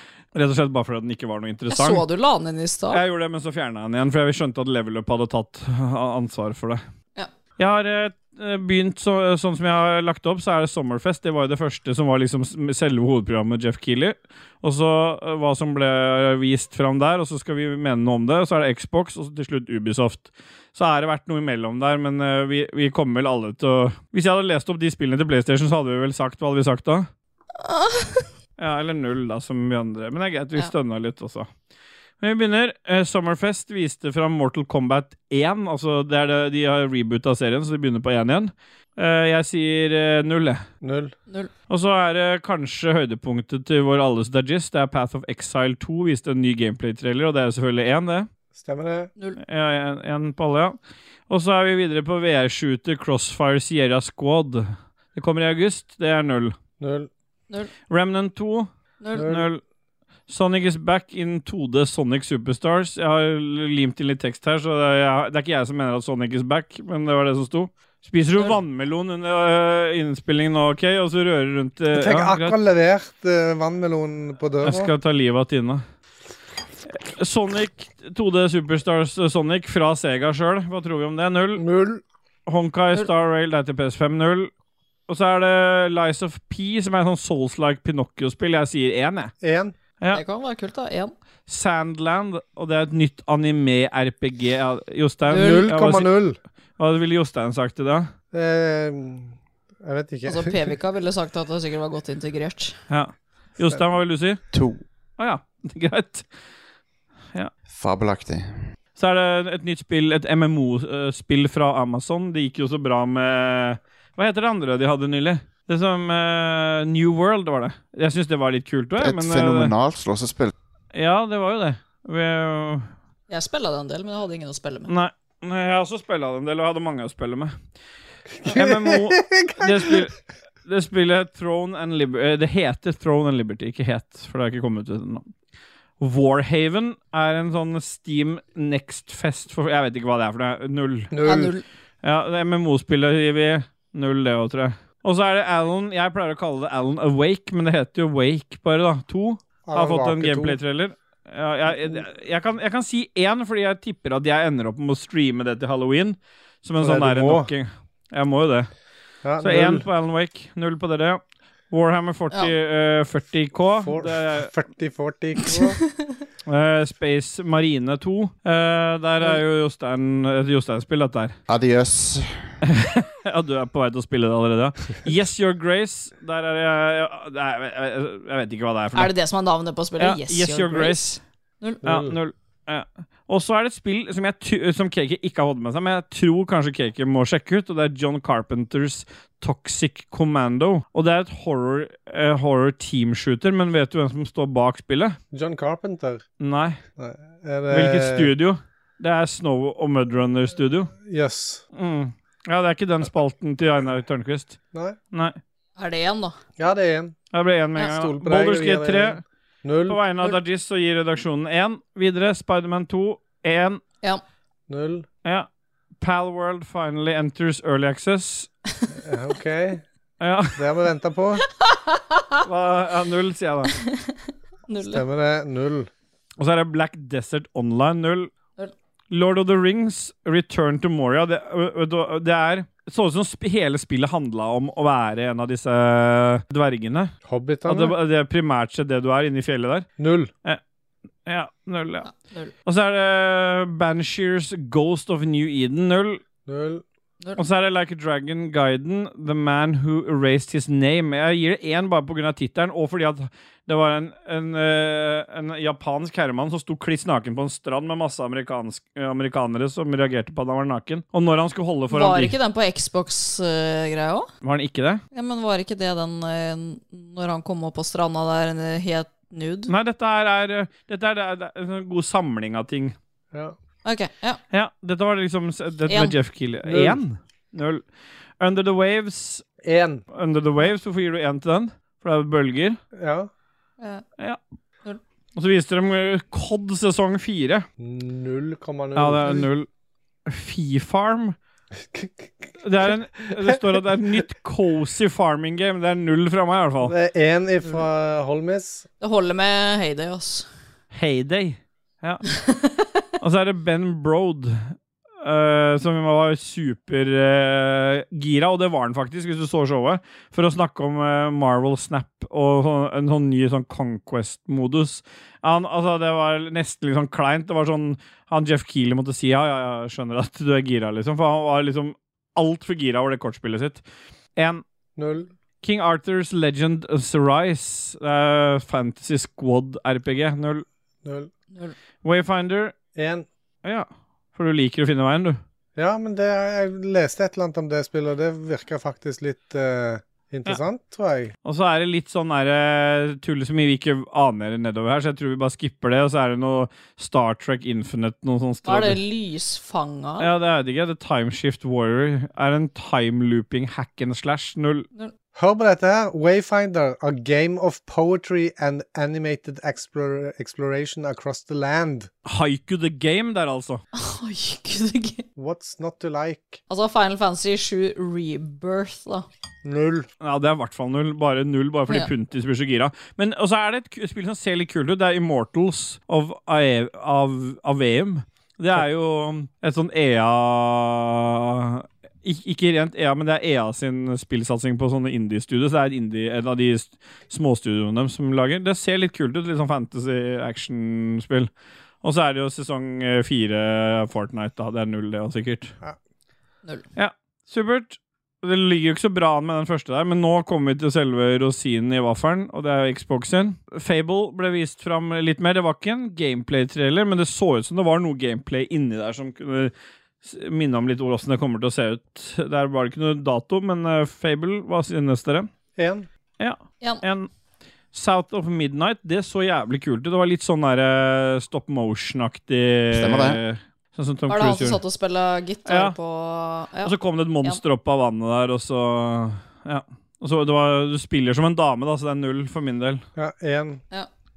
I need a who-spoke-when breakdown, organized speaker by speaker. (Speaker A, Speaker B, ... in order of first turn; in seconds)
Speaker A: 0.3-2.0, 2.9-6.8, 7.6-27.1, 28.6-31.5, 32.2-40.6, 41.7-48.3, 49.4-50.8, 51.3-56.5, 57.9-59.6, 60.3-72.6, 74.6-75.8, 76.9-81.6, 82.5-84.5, 85.1-89.3, 91.5-96.1, 96.8-98.1, 102.9-104.4, 105.2-106.2, 109.0-119.7, 120.9-122.9, 124.9-127.5, 128.4-135.3, 136.0-141.1, 142.0-158.7, 159.4-164.5, 166.4-171.4, 172.6-179.1, 180.0-181.1, 181.8-195.2, 196.4-196.8, 197.7-200.9, 201.7-204.6, 205.1-205.4, 207.3-209.2, 209.9-213.8, 216.0-218.5, 220.2-220.6, 222.4-223.7, 226.4-228.3, 229.1-237.1, 237.7-239.9, 241.2-242.1, 242.6-246.2, 247.4-262.3, 264.4-265.0, 269.7-272.9, 274.5-277.8, 278.4-279.4, 280.1-282.8, 285.4-287.6, 288.9-289.7, 290.2-291.3, 292.6-296.9, 300.9-302.2, 303.2-323.8, 324.4-324.6, 325.6-330.6, 332.0-332.7, 333.6-335.4, 341.4-349.0, 350.2-354.9, 362.2-363.8, 370.2-391.5, 392.0-395.7, 396.9-415.5, 416.4-417.3, 417.9-424.8, 425.7-425.9, 426.8-433.0
Speaker B: 1.7-3.0, 27.6-28.3, 59.0-59.3, 90.1-91.1, 95.3-95.6, 100.3-102.8, 123.3-124.9, 141.2-141.6, 178.9-181.8, 205.8-206.3, 221.6-222.3, 223.8-225.0, 242.1-242.5, 261.9-264.3, 265.1-269.7, 273.8-274.4, 275.9-276.1, 299.0-300.5, 302.3-302.8, 348.6-350.3, 363.9-365.2, 366.7-369.2, 424.3-427.6
Speaker C: 40.8-41.1, 48.5-49.1, 56.8-57.1, 59.1-59.5, 71.9-74.9, 81.6-82.0, 89.4-89.7, 95.3-96.4, 98.3-100.6, 128.4-130.0, 141.1-141.5, 149.6-150.6, 151.7-152.0, 156.8-157.5, 159.2-159.8, 163.8-165.8, 181.8-182.1, 195.3-196.2, 197.0-198.3, 201.0-201.6, 206.6-207.1, 207.8-210.0, 214.7-215.1, 219.0-219.8, 220.6-221.4, 224.8-225.9, 237.2-237.9, 240.0-240.3, 246.5-246.8, 276.7-277.0, 279.6-280.0, 282.9-283.3, 287.8-289.5, 291.9-292.3, 296.8-298.9, 325.0-325.3, 331.0-331.3, 332.9-333.2, 335.8-341.3, 355.3-362.1, 365.4-366.6, 369.6-370.1, 415.8-416.1, 433.1-433.8
Speaker D: 104.5-104.8, 107.7-108.6, 119.0-120.5, 171.5-172.4, 422.9-423.4